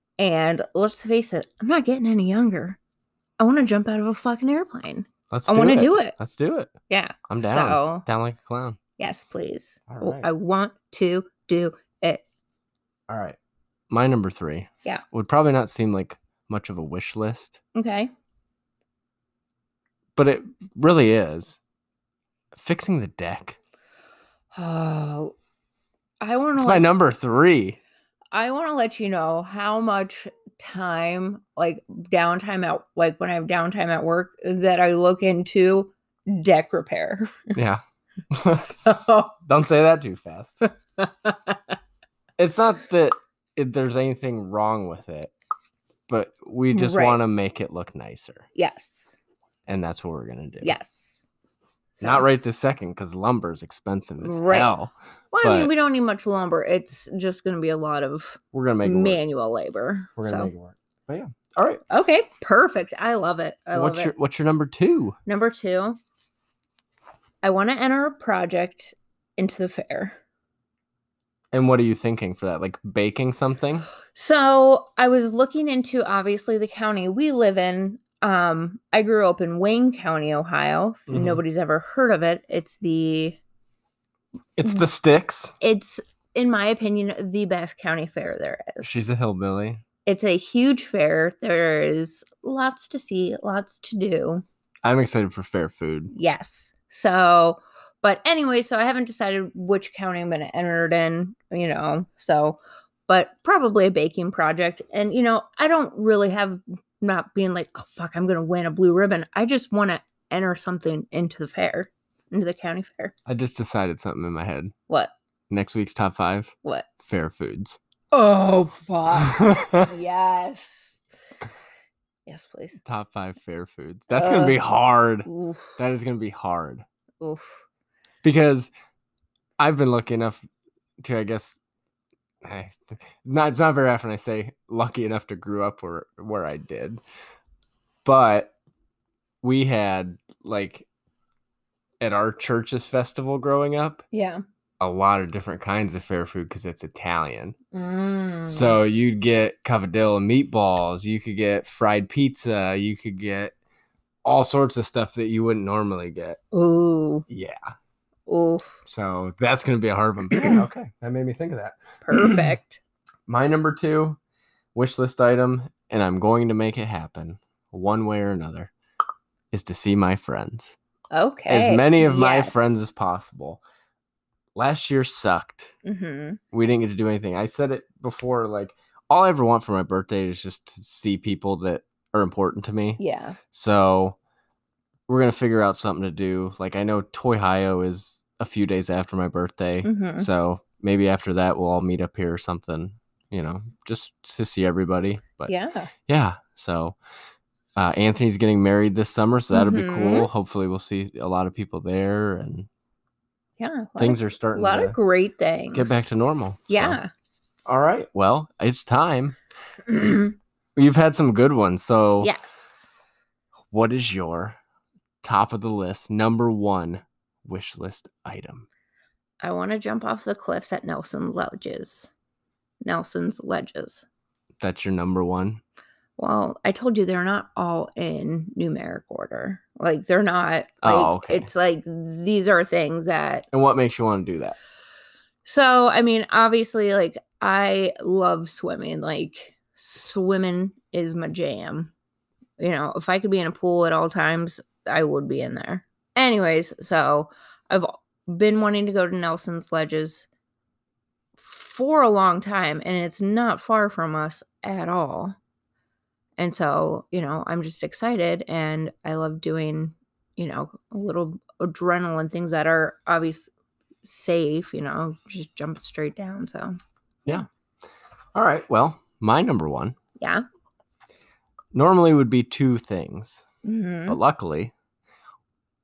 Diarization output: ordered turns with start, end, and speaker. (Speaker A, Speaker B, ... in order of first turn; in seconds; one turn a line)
Speaker A: 0.2-2.8
Speaker A: 3.4-6.2
Speaker B: 5.3-6.7
Speaker A: 6.9-8.1
Speaker B: 7.3-8.8
Speaker A: 9.0-12.2
Speaker B: 9.9-10.3
Speaker B: 13.1-13.4
Speaker B: 13.9-17.6
Speaker A: 17.8-18.1
Speaker B: 20.2-21.6
Speaker B: 22.5-23.6
Speaker A: 24.5-25.3
Speaker A: 26.2-26.9
Speaker B: 26.6-27.8
Speaker A: 28.3-37.6
Speaker B: 37.5-38.8
Speaker A: 38.5-39.3
Speaker B: 39.4-40.6
Speaker B: 42.4-45.3
Speaker B: 46.1-48.5
Speaker A: 46.7-47.2
Speaker A: 48.5-49.2
Speaker B: 49.7-50.8
Speaker A: 50.6-51.2
Speaker A: 52.0-52.2
Speaker B: 52.0-55.7
Speaker A: 54.2-54.7
Speaker A: 55.3-60.5
Speaker B: 58.5-59.2
Speaker B: 60.2-61.8
Speaker A: 61.9-64.1
Speaker B: 63.7-65.2
Speaker A: 65.3-66.0
Speaker A: 67.4-70.2
Speaker B: 71.5-73.9
Speaker A: 74.1-83.4
Speaker B: 81.1-81.4
Speaker B: 84.6-85.6
Speaker A: 85.6-89.0
Speaker B: 88.8-89.8
Speaker A: 90.0-94.4
Speaker B: 94.8-96.1
Speaker A: 96.1-113.1
Speaker B: 113.3-114.7
Speaker B: 115.5-117.8
Speaker A: 118.1-121.0
Speaker B: 119.2-119.9
Speaker A: 122.3-122.8
Speaker B: 122.8-126.8
Speaker A: 124.1-124.6
Speaker A: 125.3-125.7
Speaker A: 127.2-127.6
Speaker B: 128.2-128.7
Speaker B: 129.6-130.4
Speaker B: 131.0-131.6
Speaker B: 132.4-137.0
Speaker B: 138.0-138.5
Speaker B: 139.4-140.9
Speaker B: 142.0-144.0
Speaker A: 144.1-144.4
Speaker B: 144.8-147.6
Speaker A: 147.7-148.8
Speaker B: 148.5-153.5
Speaker B: 154.2-156.4
Speaker A: 156.5-157.2
Speaker B: 157.3-157.7
Speaker A: 158.3-158.8
Speaker B: 158.9-162.5
Speaker A: 160.3-160.6
Speaker A: 162.1-162.8
Speaker B: 163.3-164.2
Speaker B: 164.8-168.7
Speaker B: 169.5-170.8
Speaker A: 171.1-172.8
Speaker B: 171.5-173.6
Speaker B: 174.6-175.7
Speaker A: 175.8-176.4
Speaker B: 176.5-183.0
Speaker A: 183.0-183.4
Speaker B: 183.5-184.2
Speaker B: 185.1-195.5
Speaker A: 189.8-190.3
Speaker A: 195.5-195.9
Speaker B: 196.1-197.0
Speaker B: 197.8-202.7
Speaker A: 199.5-200.3
Speaker A: 203.6-206.1
Speaker B: 204.0-205.0
Speaker B: 205.7-207.0
Speaker A: 206.7-207.1
Speaker B: 207.7-209.4
Speaker B: 210.8-212.3
Speaker A: 212.2-212.9
Speaker B: 213.7-214.6
Speaker B: 215.2-218.7
Speaker A: 219.4-222.1
Speaker A: 222.8-224.1
Speaker B: 224.6-225.6
Speaker A: 226.2-233.5
Speaker B: 230.8-231.5
Speaker B: 233.5-234.6
Speaker A: 235.4-241.9
Speaker A: 242.6-250.3
Speaker A: 251.4-255.4
Speaker A: 256.4-263.5
Speaker A: 264.0-267.5
Speaker B: 268.4-270.0
Speaker A: 270.2-270.4
Speaker B: 271.7-273.4
Speaker A: 273.6-274.2
Speaker B: 274.1-274.7